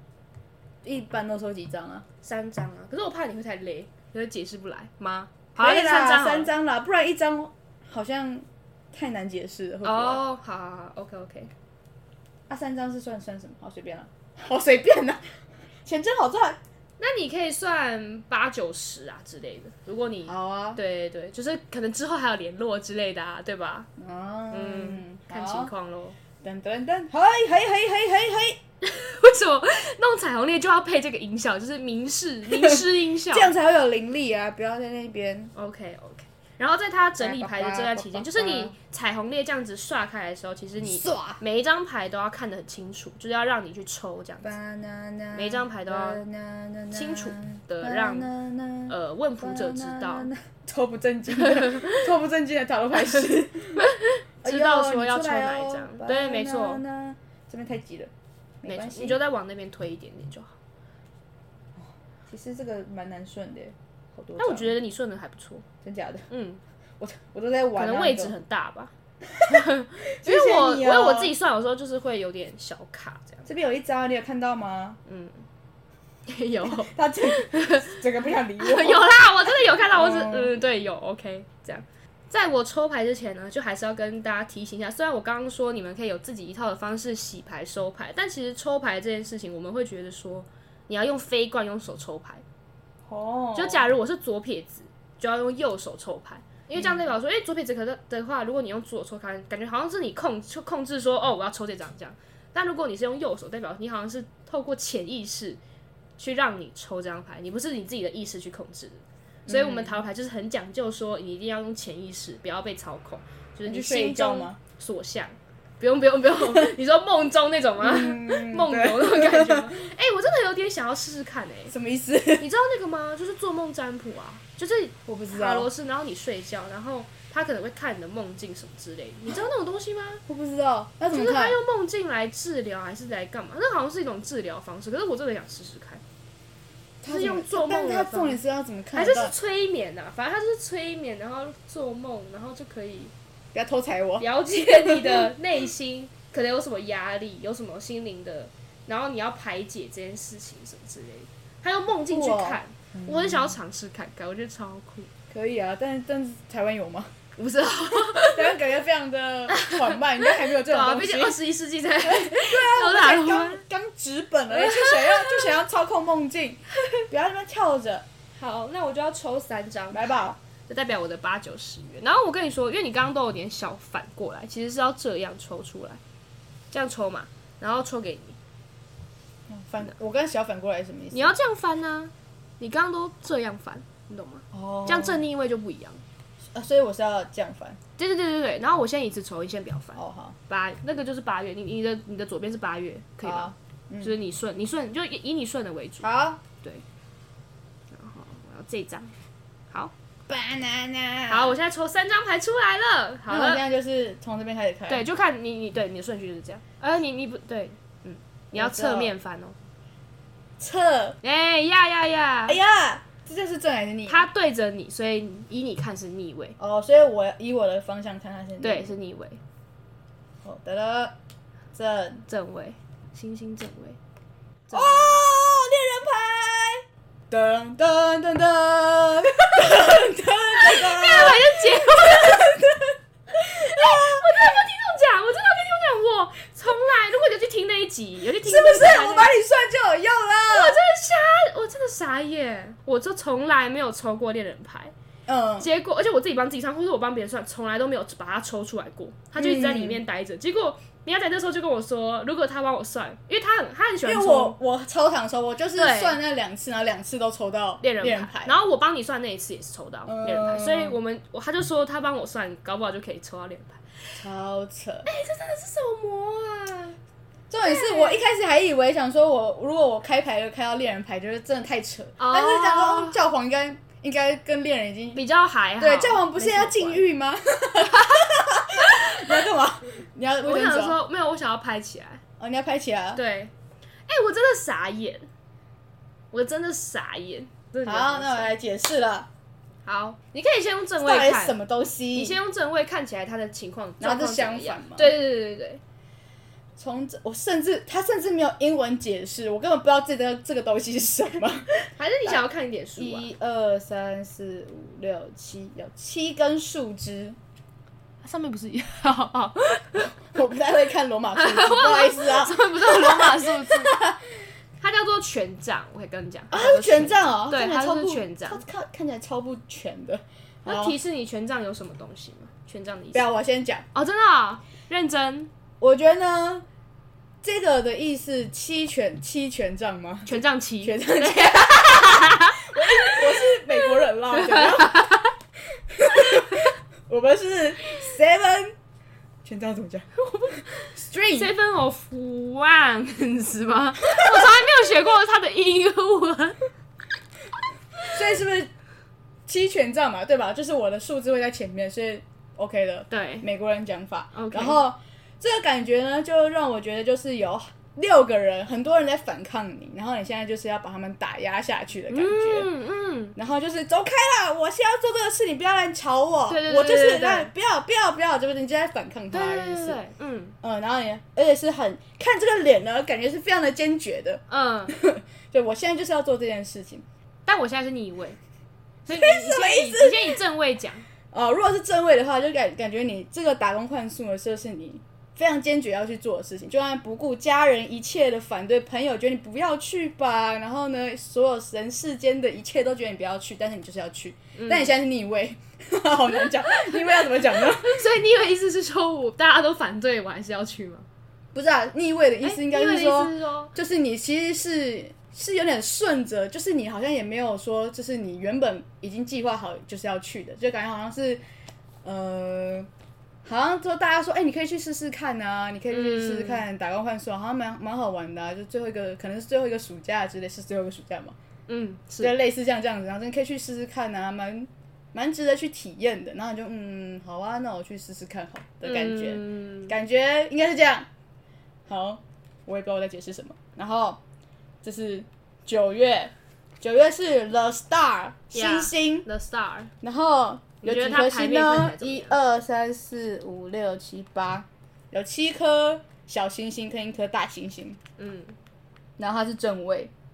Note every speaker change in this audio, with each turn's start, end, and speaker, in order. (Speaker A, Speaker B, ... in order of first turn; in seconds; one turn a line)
Speaker A: 0.8-2.1
Speaker B: 2.2-6.5
Speaker A: 5.6-10.2
Speaker B: 9.8-11.5
Speaker A: 12.5-15.3
Speaker A: 15.8-16.6
Speaker B: 17.0-23.9
Speaker A: 20.3-20.8
Speaker A: 24.0-25.7
Speaker B: 24.5-26.2
Speaker A: 26.4-28.6
Speaker B: 28.8-33.5
Speaker A: 32.5-35.5
Speaker B: 35.5-44.6
Speaker A: 37.2-38.8
Speaker A: 40.8-41.4
Speaker A: 44.4-53.8
Speaker B: 45.3-46.2
Speaker B: 46.9-48.3
Speaker B: 48.9-50.3
Speaker B: 51.4-52.1
Speaker B: 53.8-56.8
Speaker A: 54.4-58.1
Speaker A: 58.6-59.2
Speaker B: 58.7-60.6
Speaker A: 61.8-64.7
Speaker B: 64.4-65.6
Speaker A: 65.8-66.3
Speaker B: 66.3-66.6
Speaker A: 67.0-68.3
Speaker B: 67.8-68.9
Speaker A: 69.3-71.3
Speaker B: 69.4-73.5
Speaker A: 73.5-75.0
Speaker B: 75.1-75.4
Speaker B: 76.3-78.0
Speaker A: 76.7-79.2
Speaker B: 78.6-92.4
Speaker A: 79.9-80.5
Speaker A: 93.0-93.9
Speaker B: 93.5-105.6
Speaker A: 96.8-97.0
Speaker B: 106.2-121.7
Speaker A: 109.5-110.0
Speaker A: 113.7-114.6
Speaker A: 117.8-119.7
Speaker A: 121.7-122.5
Speaker B: 122.4-130.2
Speaker A: 125.1-125.7
Speaker A: 130.3-131.6
Speaker B: 131.1-136.0
Speaker A: 137.0-139.3
Speaker B: 137.1-138.4
Speaker B: 138.9-143.1
Speaker A: 143.5-145.3
Speaker B: 144.2-155.1
Speaker A: 152.1-153.6
Speaker A: 155.3-157.1
Speaker B: 157.4-158.6
Speaker A: 157.9-161.4
Speaker B: 159.5-163.6
Speaker A: 162.0-168.1
Speaker B: 164.5-165.5
Speaker B: 168.3-176.0
Speaker A: 169.9-170.4
Speaker B: 176.7-178.4
Speaker A: 179.5-181.3
Speaker B: 181.1-186.0
Speaker A: 184.5-185.2
Speaker A: 186.5-187.8
Speaker B: 188.0-196.1
Speaker A: 189.9-190.4
Speaker A: 193.2-194.2
Speaker A: 196.0-196.4
Speaker B: 197.9-199.1
Speaker A: 200.3-201.6
Speaker B: 201.3-203.6
Speaker A: 203.3-205.1
Speaker B: 204.9-209.6
Speaker A: 208.5-209.1
Speaker A: 210.6-211.2
Speaker B: 211.2-212.6
Speaker A: 212.5-214.3
Speaker B: 214.1-216.6
Speaker A: 216.6-218.9
Speaker B: 218.6-219.4
Speaker A: 220.4-221.2
Speaker A: 221.7-222.2
Speaker B: 222.3-224.0
Speaker B: 224.7-225.3
Speaker A: 224.7-234.6
Speaker B: 230.6-232.5
Speaker B: 233.3-239.3
Speaker A: 238.4-240.8
Speaker B: 240.5-244.9
Speaker A: 245.3-245.7
Speaker B: 245.6-254.6
Speaker A: 249.4-250.0
Speaker A: 254.0-258.6
Speaker B: 255.8-256.2
Speaker B: 257.8-264.2
Speaker A: 260.1-261.0
Speaker A: 264.2-265.1
Speaker B: 265.1-267.0
Speaker A: 267.5-275.2
Speaker B: 267.6-268.2
Speaker B: 272.2-273.2
Speaker B: 275.1-277.1
Speaker A: 275.8-281.0
Speaker B: 277.8-279.4
Speaker B: 280.4-282.2
Speaker A: 282.4-283.2
Speaker B: 283.1-283.5
Speaker B: 284.1-285.3
Speaker B: 286.3-288.5
Speaker A: 287.9-289.3
Speaker B: 289.9-291.6
Speaker A: 291.0-292.4
Speaker B: 292.1-295.8
Speaker A: 294.0-295.2
Speaker A: 296.8-302.4
Speaker B: 302.0-303.3
Speaker A: 303.0-307.4
Speaker B: 308.2-310.2
Speaker A: 310.2-314.2
Speaker B: 311.3-314.0
Speaker B: 314.8-318.6
Speaker A: 316.5-321.0
Speaker B: 320.7-323.2
Speaker A: 323.1-323.9
Speaker B: 323.9-325.5
Speaker A: 325.8-326.6
Speaker A: 327.4-335.1
Speaker B: 330.3-335.3
Speaker A: 335.9-338.8
Speaker B: 336.1-336.7
Speaker A: 339.4-340.1
Speaker B: 340.2-346.6
Speaker A: 340.9-341.5
Speaker A: 344.1-344.6
Speaker A: 348.1-348.7
Speaker A: 349.5-362.7
Speaker B: 353.1-353.5
Speaker B: 354.3-354.8
Speaker B: 362.1-363.4
Speaker A: 363.4-370.0
Speaker B: 366.5-367.5
Speaker B: 369.3-370.6
Speaker A: 370.6-377.0
Speaker B: 374.5-375.0
Speaker B: 377.5-378.4
Speaker B: 379.1-381.1
Speaker A: 379.1-380.4
Speaker A: 381.3-398.0
Speaker B: 394.6-394.9
Speaker B: 396.6-401.1
Speaker A: 401.5-411.4
Speaker B: 402.4-403.7
Speaker A: 412.0-412.9
Speaker A: 413.4-421.4
Speaker B: 415.9-416.7
Speaker B: 421.7-422.4
Speaker A: 422.2-431.1
Speaker B: 428.8-429.9
Speaker A: 431.9-434.2
Speaker A: 434.8-439.3
Speaker B: 438.5-439.9
Speaker A: 440.0-448.0
Speaker B: 440.8-442.4
Speaker B: 448.2-448.6
Speaker A: 449.2-450.1